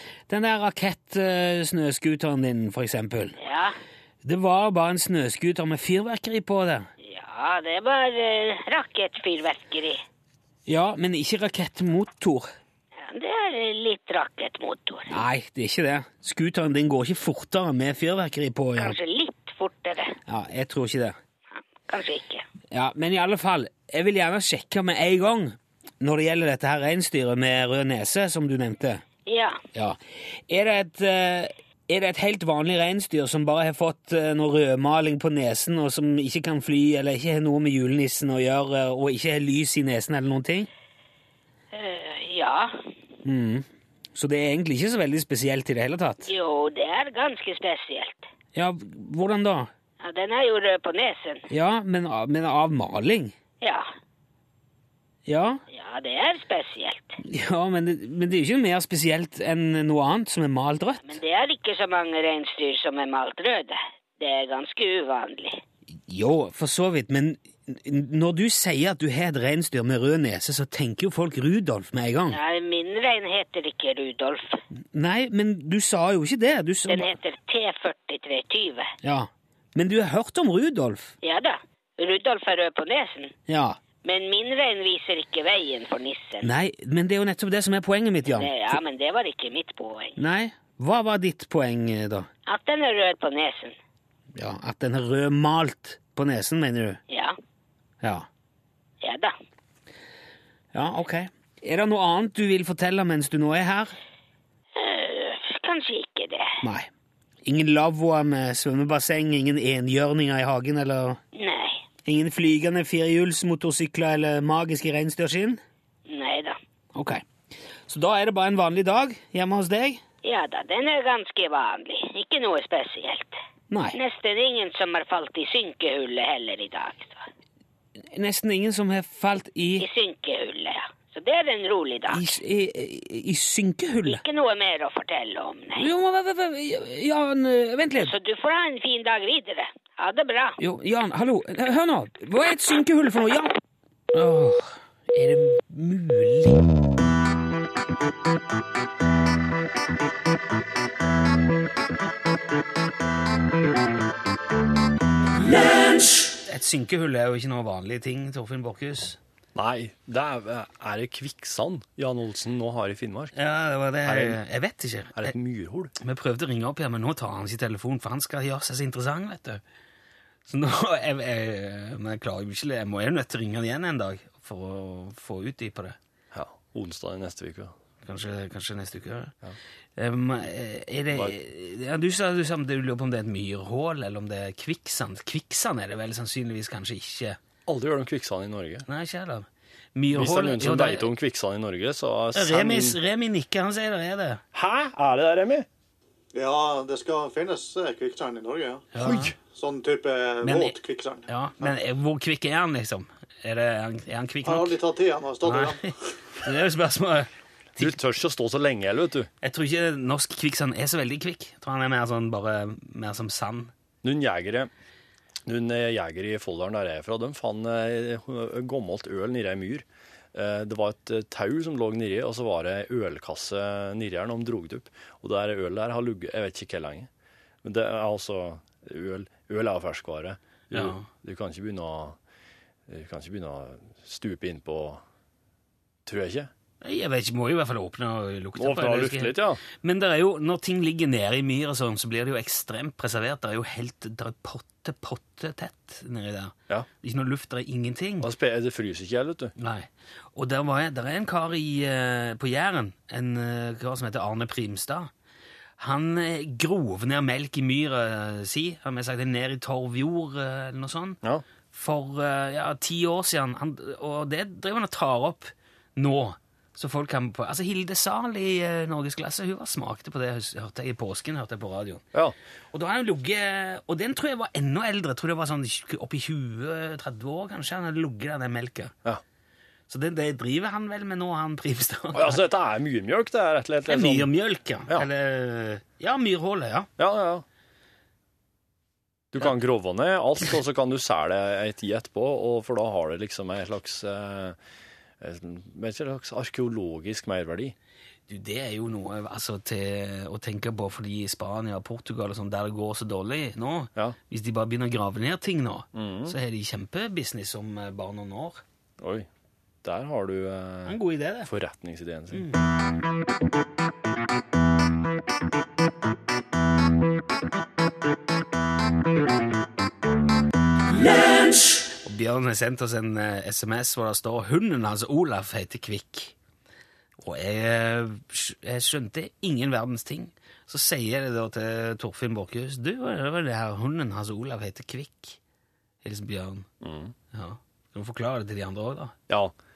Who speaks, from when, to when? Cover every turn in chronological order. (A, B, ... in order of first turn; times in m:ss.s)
0:00.3-0:03.4 A
0:03.4-0:03.8 B
0:04.2-0:06.9 A
0:07.0-0:10.0 B
0:10.7-0:12.5 A
0:13.0-0:15.2 B
0:15.1-0:19.0 A
0:18.8-0:20.2 B
0:20.3-0:21.2 A
0:21.9-0:22.4 B
0:22.7-0:29.0 A
0:29.3-0:29.6 B
0:30.5-0:40.7 A
0:41.7-0:42.8 B
0:43.2-0:46.3 A
0:46.2-0:48.3 B
0:48.5-0:49.7 A
0:50.0-0:51.5 B
0:51.5-0:53.3 A
0:53.6-0:53.9 B
0:55.2-0:55.6 A
0:55.7-0:57.2 B
0:57.2-1:01.2 A
1:01.0-1:05.6 B
1:06.1-1:12.4 A
1:12.3-1:14.6 B
1:14.9-1:17.1 A
1:16.9-1:18.9 B
1:19.0-1:21.1 A
1:21.2-1:23.3 B
1:23.5-1:23.8 A
1:24.0-1:26.5 B
1:26.4-1:28.8 A
1:28.3-1:30.2 B
1:30.2-1:32.3 A
1:32.4-1:33.8 B
1:34.3-1:37.0 A
1:37.1-1:37.4 B
1:38.0-1:38.3 A
1:39.0-1:39.3 B
1:40.7-1:44.0 A
1:44.7-1:46.6 B
1:46.6-1:46.9 A
1:47.4-1:51.2 A
1:51.3-1:51.8 B
1:52.0-1:55.6 A
1:56.1-1:56.6 B
1:56.9-1:57.2 A
1:57.9-2:00.0 A
2:00.2-2:03.4 B
2:03.7-2:04.0 A
2:03.9-2:07.2 B
2:08.1-2:09.8 A
2:09.8-2:12.3 B
2:12.1-2:14.2 A
2:14.0-2:15.9 B
2:15.8-2:18.1 A
2:18.0-2:20.6 B
2:20.6-2:23.5 A
2:24.1-2:26.6 A
2:36.4-2:39.2 A
2:39.5-2:43.3 C
2:43.3-2:45.3 A
2:44.0-2:44.4 C
2:45.2-2:45.9 C
2:46.0-2:49.6 A
2:50.5-2:56.0 A
2:56.3-2:57.7 C
2:58.0-2:59.3 A
3:00.0-3:07.4 A
3:07.7-3:08.8 C
3:08.9-3:11.1 A
3:10.1-3:13.0 C
3:12.3-3:14.4 A
3:14.5-3:15.6 C
3:16.3-3:21.8 D
3:18.9-3:19.3 A
3:19.0-3:19.3 C
3:20.4-3:24.8 A
3:24.4-3:25.9 D
3:25.4-3:28.0 A
3:27.8-3:29.3 C
3:29.4-3:33.7 A
3:34.0-3:34.7 C
3:35.4-3:47.1 C
3:47.6-3:52.2 C
3:50.7-3:51.0 A
3:52.9-3:55.0 C
3:56.0-3:56.5 C
3:56.8-4:08.3 A
3:58.6-3:59.6 C
4:08.2-4:09.5 C
4:09.6-4:15.1 A
4:15.8-4:21.2 A
4:21.7-4:32.0 A
4:32.7-4:38.9 A
4:39.9-4:42.4 A
4:42.1-4:44.3 C
4:43.8-4:46.9 A
4:47.0-4:47.4 C
4:49.3-4:54.6 C
4:55.2-4:57.7 C
4:58.3-5:08.6 A
5:05.9-5:06.4 C
5:09.0-5:09.3 C
5:09.8-5:12.4 C
5:10.8-5:11.5 A
5:12.3-5:12.6 A
5:22.0-5:26.3 A
5:27.2-5:35.4 A
5:36.0-5:36.7 A
5:36.8-5:37.1 C
5:37.3-5:39.1 A